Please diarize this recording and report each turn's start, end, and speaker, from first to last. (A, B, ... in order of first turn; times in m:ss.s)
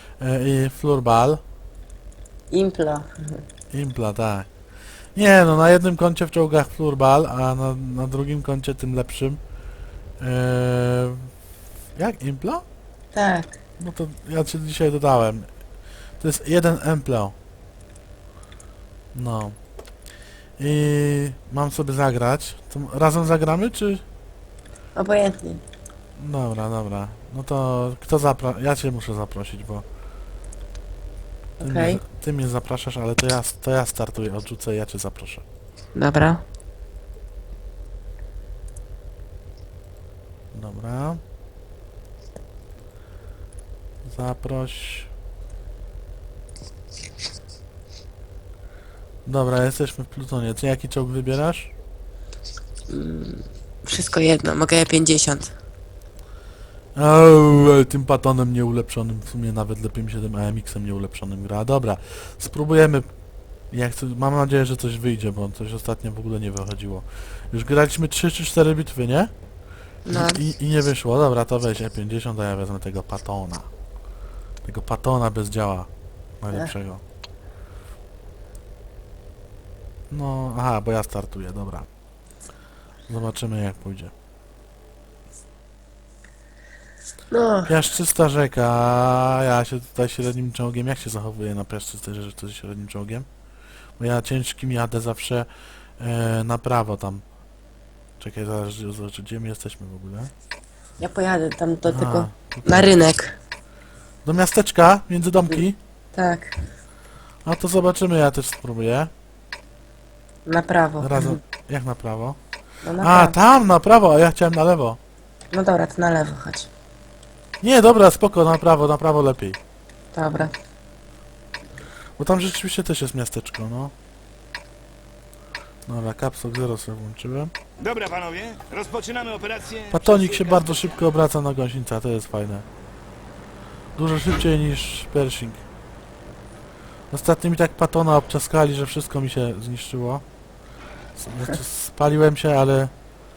0:00.2-0:01.4 A
0:02.5-0:03.4 B
0:03.7-0:04.5 A
0:05.2-0:09.4 A
0:10.2-0:11.3 A
0:12.0-0:12.6 A
0:13.1-0:13.6 B
0:13.8-0:15.5 A
0:16.2-0:17.3 A
0:19.1-0:19.6 A
0:20.6-0:24.0 A
0:25.0-0:25.6 B
0:26.2-0:29.8 A
0:31.6-0:32.0 B
0:31.6-0:35.4 A
0:36.0-0:36.4 B
0:40.5-0:41.2 A
0:44.0-0:45.1 A
0:49.3-0:51.7 A
0:52.9-0:55.5 B
0:57.0-1:03.1 A
1:03.7-1:09.3 A
1:10.1-1:10.4 B
1:10.1-1:13.7 A
1:14.6-1:17.0 A
1:20.1-1:21.9 A
1:23.1-1:24.1 A
1:27.3-1:27.8 B
1:27.7-1:33.3 A
1:34.0-1:35.5 A
1:36.0-1:37.2 A
1:38.2-1:40.3 A
1:41.0-1:43.4 B
1:41.9-1:43.0 A
1:44.2-1:45.8 A
1:46.1-1:46.6 B
1:47.4-1:49.1 A
1:50.5-1:51.4 B
1:51.0-1:52.4 A
1:52.8-1:53.4 B
1:53.0-1:55.0 A
1:55.5-1:56.7 B
1:57.6-1:59.6 A
2:00.1-2:00.5 B
2:02.2-2:03.9 A
2:05.9-2:07.5 A
2:07.8-2:09.9 C
2:09.9-2:12.6 A
2:14.0-2:15.6 A
2:17.1-2:20.2 A
2:21.2-2:22.9 A